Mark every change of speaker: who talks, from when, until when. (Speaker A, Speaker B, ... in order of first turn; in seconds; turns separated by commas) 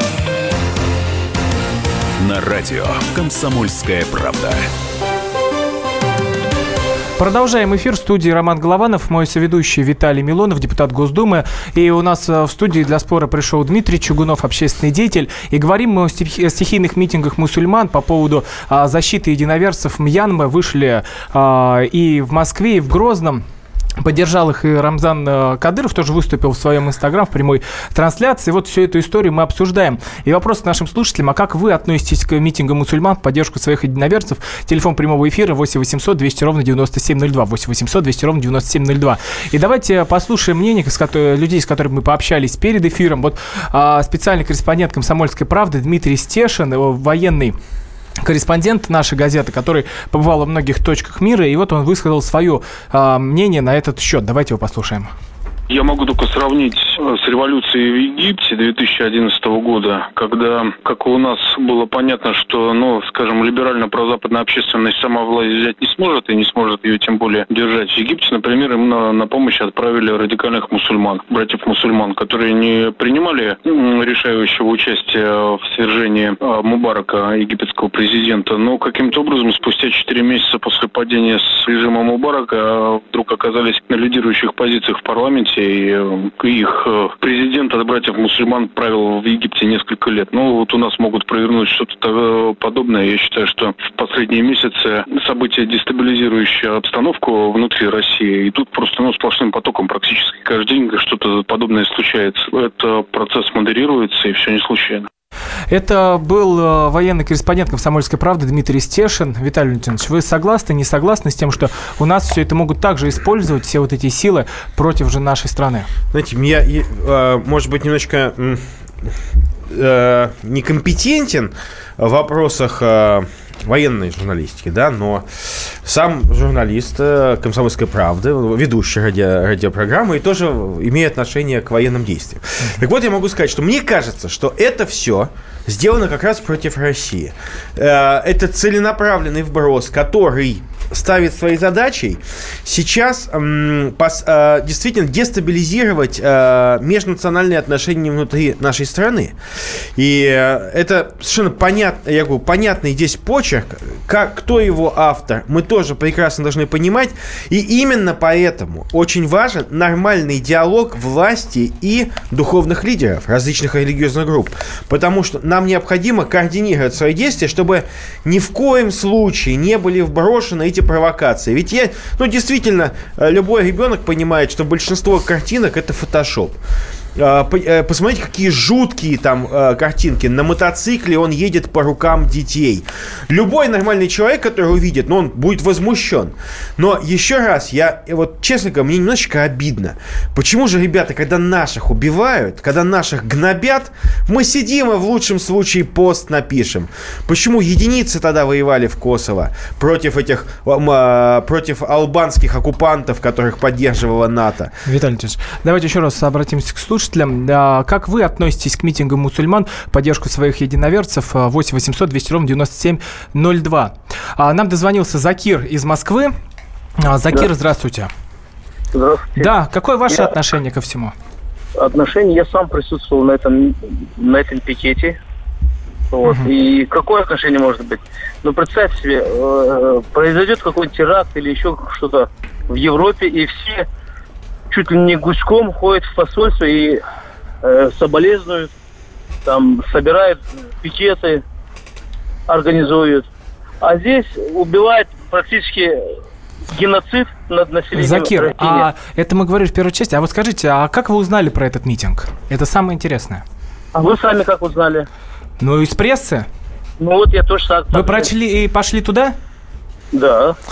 Speaker A: 2.2-4.7, Speaker B: 7.2-23.4, Speaker B: 24.0-47.5, Speaker B: 48.2-55.1, Speaker C: 55.7-105.1, Speaker B: 105.7-115.9, Speaker D: 116.1-119.1, Speaker D: 119.7-149.4, Speaker D: 149.9-176.6, Speaker D: 177.2-204.7, Speaker B: 204.8-216.3, Speaker B: 217.0-218.1, Speaker E: 218.9-219.5, Speaker B: 219.4-221.1, Speaker E: 221.8-225.2, Speaker E: 226.1-233.8, Speaker E: 234.7-237.0, Speaker E: 237.6-238.7, Speaker E: 239.4-241.4, Speaker E: 242.5-243.3, Speaker E: 243.8-245.9, Speaker E: 246.7-248.9, Speaker B: 247.9-253.4, Speaker E: 253.9-255.1, Speaker B: 255.6-256.4, Speaker E: 257.0-258.3, Speaker B: 257.9-259.3, Speaker E: 260.1-260.6